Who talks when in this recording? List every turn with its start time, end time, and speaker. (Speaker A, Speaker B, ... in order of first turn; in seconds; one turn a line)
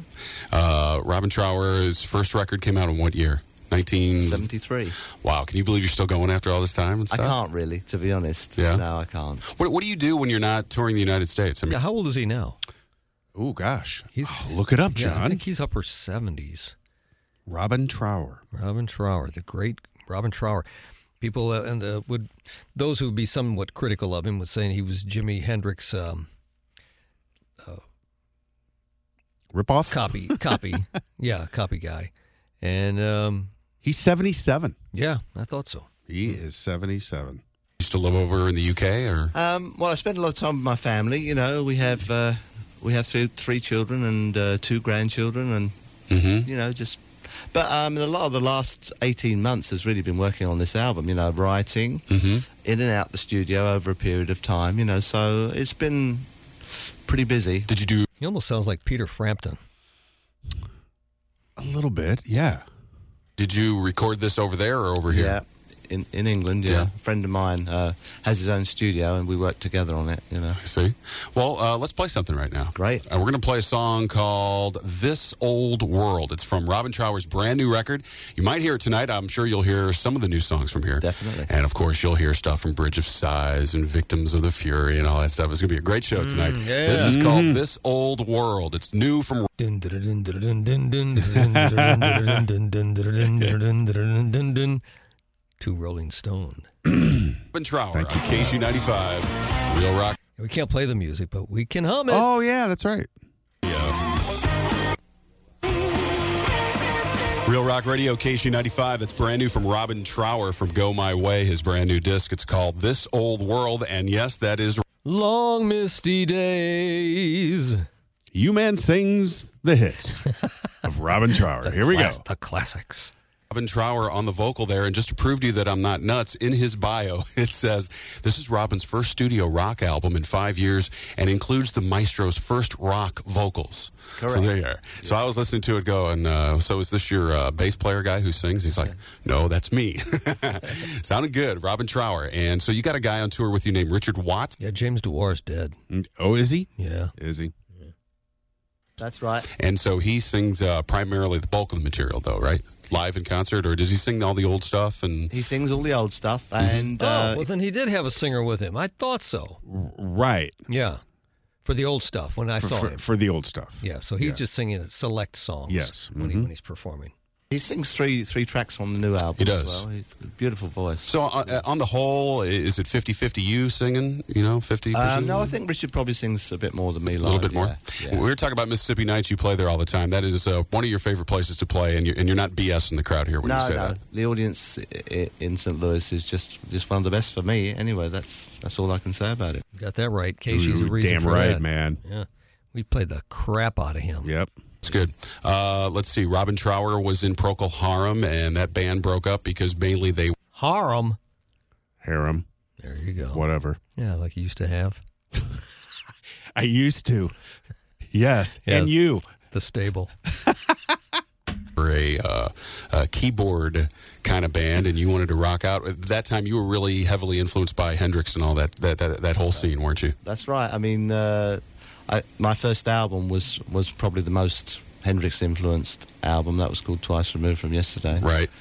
Speaker A: 0.5-4.5
Speaker B: 4.2-5.0
Speaker A: 5.1-7.4
Speaker B: 7.1-9.4
Speaker A: 8.6-8.8
Speaker A: 9.4-11.8
Speaker C: 11.7-12.6
Speaker D: 13.3-15.4
Speaker C: 14.1-16.7
Speaker D: 17.5-18.4
Speaker C: 18.5-20.7
Speaker C: 21.2-26.3
Speaker D: 29.5-30.4
Speaker C: 29.9-33.5
Speaker D: 33.8-34.7
Speaker C: 34.9-35.9
Speaker D: 36.1-37.4
Speaker A: 37.8-39.3
Speaker B: 39.3-45.7
Speaker A: 46.1-46.5
Speaker B: 46.4-52.1
Speaker A: 52.1-52.4
Speaker B: 52.6-56.3
Speaker B: 57.0-57.7
Speaker A: 57.7-58.0
Speaker C: 58.2-59.6
Speaker D: 61.6-62.6
Speaker A: 63.4-65.4
Speaker B: 65.1-70.6
Speaker A: 66.6-66.9
Speaker A: 70.5-89.5
Speaker B: 72.7-73.0
Speaker B: 81.0-81.5
Speaker C: 86.2-87.2
Speaker D: 86.9-87.6
Speaker C: 89.6-94.8
Speaker D: 91.5-92.4
Speaker C: 95.6-96.7
Speaker A: 97.5-100.2
Speaker D: 97.9-98.6
Speaker C: 100.4-102.3
Speaker D: 102.1-103.1
Speaker A: 103.6-104.0
Speaker A: 107.5-114.8
Speaker C: 115.0-117.8
Speaker D: 118.3-120.2
Speaker D: 120.8-122.2
Speaker C: 121.6-123.1
Speaker A: 123.5-144.6
Speaker B: 134.2-135.2
Speaker C: 144.6-145.8
Speaker D: 145.9-147.5
Speaker C: 146.8-147.1
Speaker B: 149.0-149.5
Speaker A: 149.6-155.3
Speaker B: 155.3-157.5
Speaker A: 156.6-156.8
Speaker C: 157.0-159.6
Speaker D: 159.6-160.6
Speaker C: 160.7-161.0
Speaker C: 161.6-163.0
Speaker D: 162.6-164.4
Speaker C: 163.8-167.1
Speaker D: 165.7-166.5
Speaker B: 167.5-171.6
Speaker A: 169.4-169.8
Speaker A: 171.0-175.6
Speaker B: 174.9-178.3
Speaker A: 177.1-184.0
Speaker B: 183.4-189.6
Speaker C: 189.7-194.3
Speaker D: 190.5-192.0
Speaker D: 194.2-194.5
Speaker A: 194.8-200.3
Speaker C: 200.5-201.2
Speaker D: 202.0-202.4
Speaker C: 202.8-203.4
Speaker D: 203.3-203.8
Speaker C: 203.9-205.0
Speaker D: 206.5-207.3
Speaker D: 208.1-209.3
Speaker C: 208.6-208.9
Speaker C: 209.5-210.1
Speaker D: 210.4-210.9
Speaker A: 211.8-220.2
Speaker B: 219.5-228.3
Speaker A: 228.2-228.5